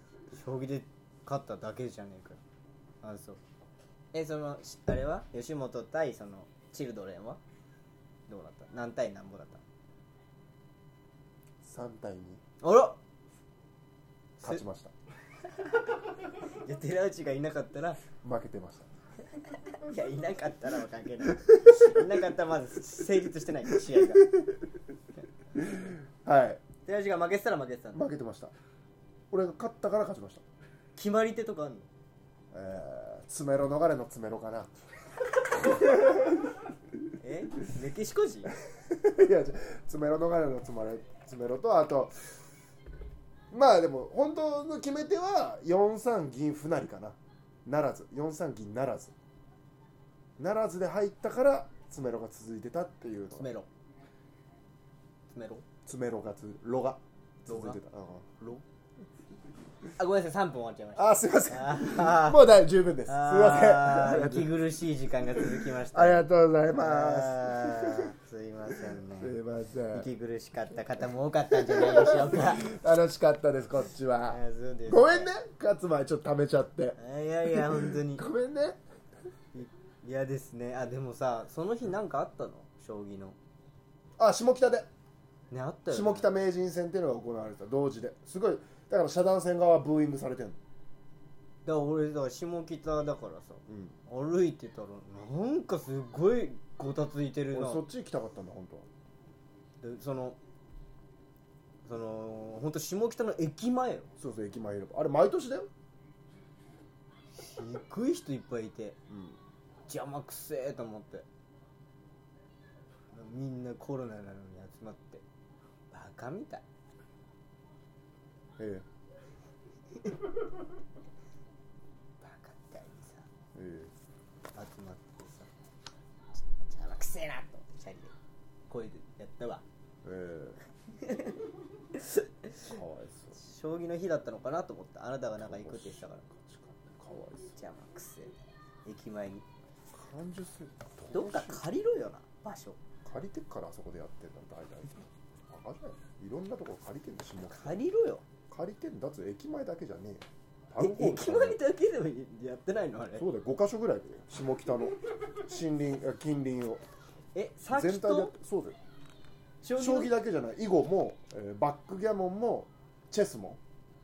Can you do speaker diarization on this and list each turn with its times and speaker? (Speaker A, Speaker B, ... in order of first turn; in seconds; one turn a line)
Speaker A: 0.3-2.4
Speaker A: 3.0-3.4
Speaker A: 4.1-7.4
Speaker A: 8.3-9.6
Speaker B: 11.6-12.4
Speaker A: 12.6-13.0
Speaker B: 14.4-14.9
Speaker A: 16.4-18.0
Speaker B: 18.2-18.9
Speaker A: 19.7-24.3
Speaker B: 21.4-22.0
Speaker B: 23.9-24.4
Speaker B: 25.5-26.6
Speaker A: 26.8-28.0
Speaker B: 27.9-28.5
Speaker B: 29.3-30.4
Speaker A: 30.9-31.9
Speaker B: 32.5-34.7
Speaker B: 35.5-36.5
Speaker A: 37.2-38.5
Speaker B: 38.7-42.4
Speaker B: 43.5-49.1
Speaker B: 50.4-53.5
Speaker A: 53.3-53.7
Speaker A: 55.3-55.6
Speaker B: 55.9-58.3
Speaker A: 57.5-57.8
Speaker A: 60.0-62.4
Speaker B: 61.0-64.6
Speaker A: 63.0-69.4
Speaker B: 65.3-68.1
Speaker B: 69.2-70.1
Speaker A: 69.9-72.7
Speaker B: 71.5-78.8
Speaker A: 74.3-75.3
Speaker A: 77.0-78.3
Speaker A: 79.5-83.4
Speaker B: 84.2-84.9
Speaker A: 85.5-86.3
Speaker B: 85.9-90.6
Speaker A: 91.6-97.8
Speaker B: 93.7-93.9
Speaker B: 97.5-98.9
Speaker A: 99.8-100.4
Speaker A: 101.8-104.1
Speaker B: 104.2-105.7
Speaker A: 107.3-109.0
Speaker B: 109.1-109.4
Speaker A: 109.9-111.2
Speaker A: 113.1-115.2
Speaker A: 115.9-116.6
Speaker B: 118.6-118.8
Speaker A: 122.2-123.2
Speaker B: 123.5-123.9
Speaker A: 124.5-125.5
Speaker A: 126.4-128.1
Speaker A: 128.7-129.6
Speaker B: 130.0-130.6
Speaker A: 131.0-131.4
Speaker A: 131.9-132.7
Speaker B: 132.6-133.4
Speaker A: 133.3-136.2
Speaker B: 135.4-137.5
Speaker A: 137.5-139.4
Speaker B: 139.9-141.6
Speaker A: 141.1-142.8
Speaker B: 143.0-147.8
Speaker A: 147.5-148.2
Speaker B: 148.5-151.6
Speaker A: 150.8-153.2
Speaker B: 153.2-156.8
Speaker A: 157.3-158.3
Speaker B: 157.7-158.8
Speaker A: 159.6-160.1
Speaker B: 159.8-163.6